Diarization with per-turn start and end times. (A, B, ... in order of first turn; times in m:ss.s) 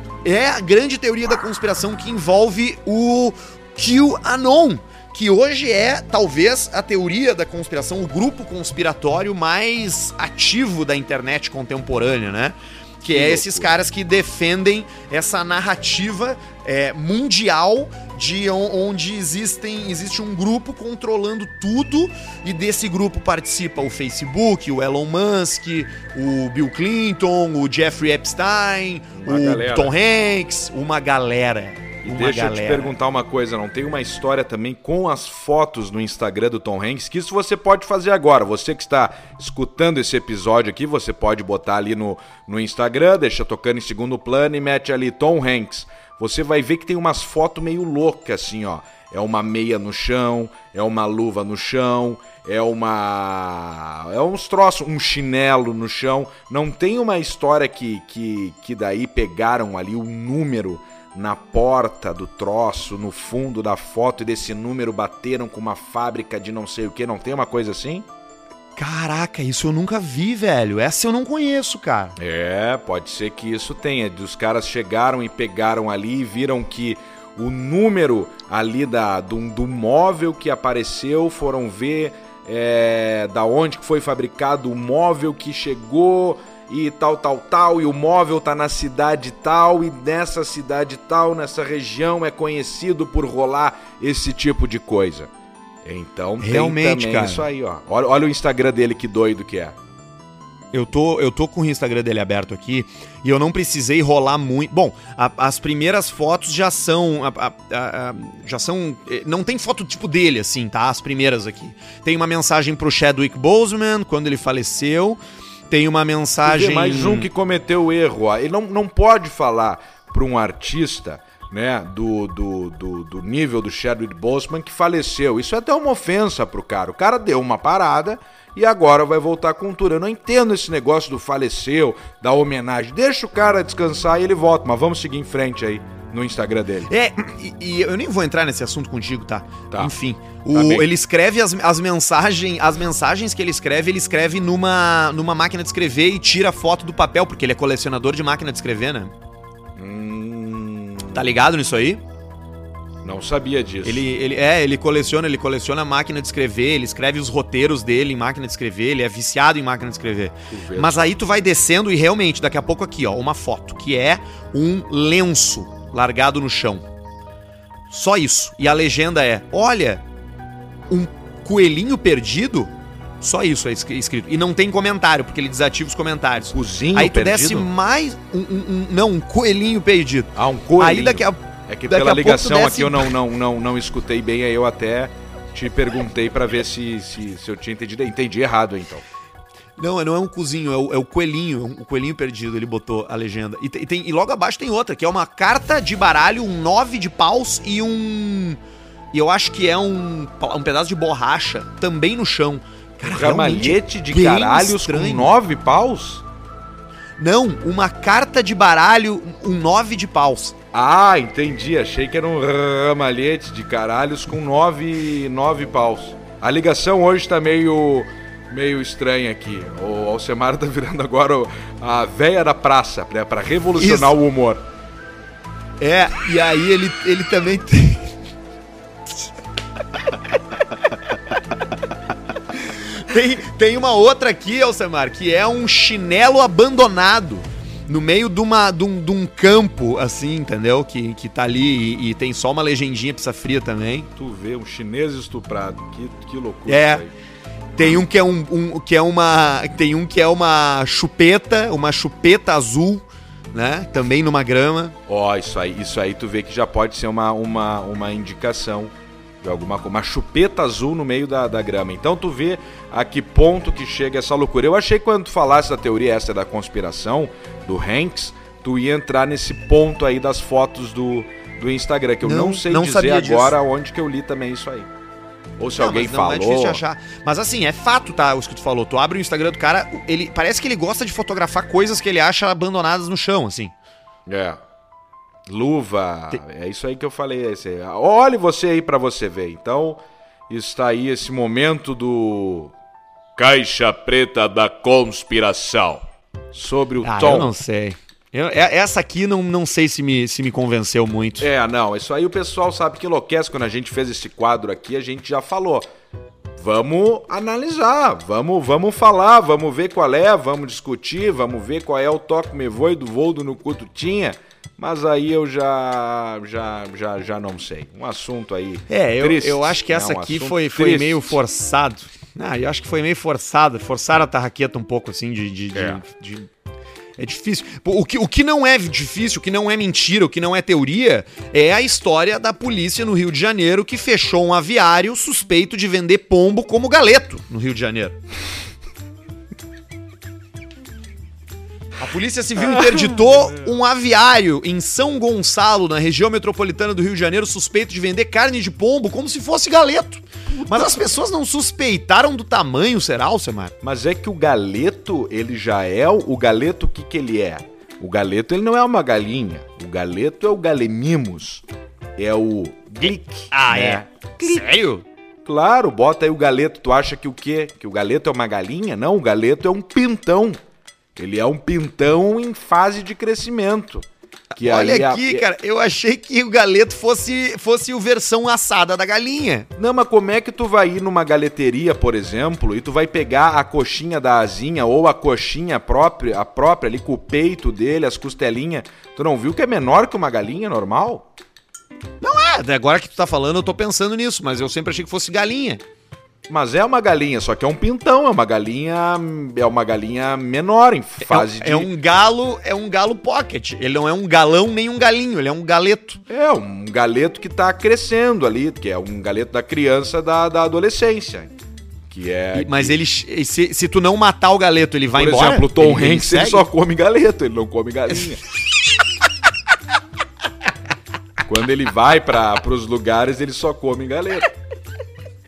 0:00.2-0:33.0 A
0:13.0-0:13.7 B
0:29.1-0:29.9 B
0:32.0-1:08.0 B
1:08.8-1:12.2 A
1:12.2-1:35.3 B
1:35.8-1:39.8 B
1:36.4-1:37.4 A
1:40.7-1:55.2 A
1:55.7-1:57.3 A
1:56.4-2:16.9 B
2:16.9-2:29.1 A
2:20.5-2:20.9 B
2:29.8-2:31.3 B
2:31.1-2:32.0 A
2:33.0-2:34.0 B
2:33.8-2:46.8 A
2:40.5-2:41.1 B
2:47.9-2:50.0 A
2:50.9-3:03.1 A
2:56.5-2:57.7 B
3:00.3-3:09.0 B
3:09.8-3:18.6 A
3:19.1-3:25.3 A
3:23.0-3:26.2 B
3:27.2-3:30.5 A
3:30.7-3:44.6 B
3:43.8-3:44.1 A
3:45.8-3:48.1 A
3:52.5-4:04.1 A
4:04.2-4:07.1 B
4:06.7-4:07.0 A
4:07.8-4:15.0 A
4:15.1-4:34.9 B
4:32.2-4:33.5 A
4:35.6-4:36.8 B
4:35.8-4:43.7 A
4:44.3-4:44.6 B
4:45.5-4:52.7 B
4:53.4-4:57.5 B
4:57.0-5:01.5 A
5:01.4-5:05.9 B
5:06.6-5:21.4 B
5:18.9-5:26.5 A
5:25.7-5:26.0 B
5:27.2-5:38.2 A
5:42.0-5:53.7 A
5:42.6-5:43.6 B
5:50.5-5:51.2 B
5:53.8-6:01.6 B
6:02.2-6:04.6 B
6:03.5-6:05.0 A
6:05.4-6:10.6 B
6:11.2-6:14.0 B
6:14.5-6:19.7 A
6:14.6-6:15.4 B
6:19.8-6:31.3 B
6:32.2-6:35.8 A
6:36.5-6:41.9 B
6:41.2-6:46.2 A
6:46.3-6:51.5 B
6:52.1-6:53.0 B
6:52.5-6:56.6 A
6:55.1-6:58.4 B
7:01.4-7:04.5 B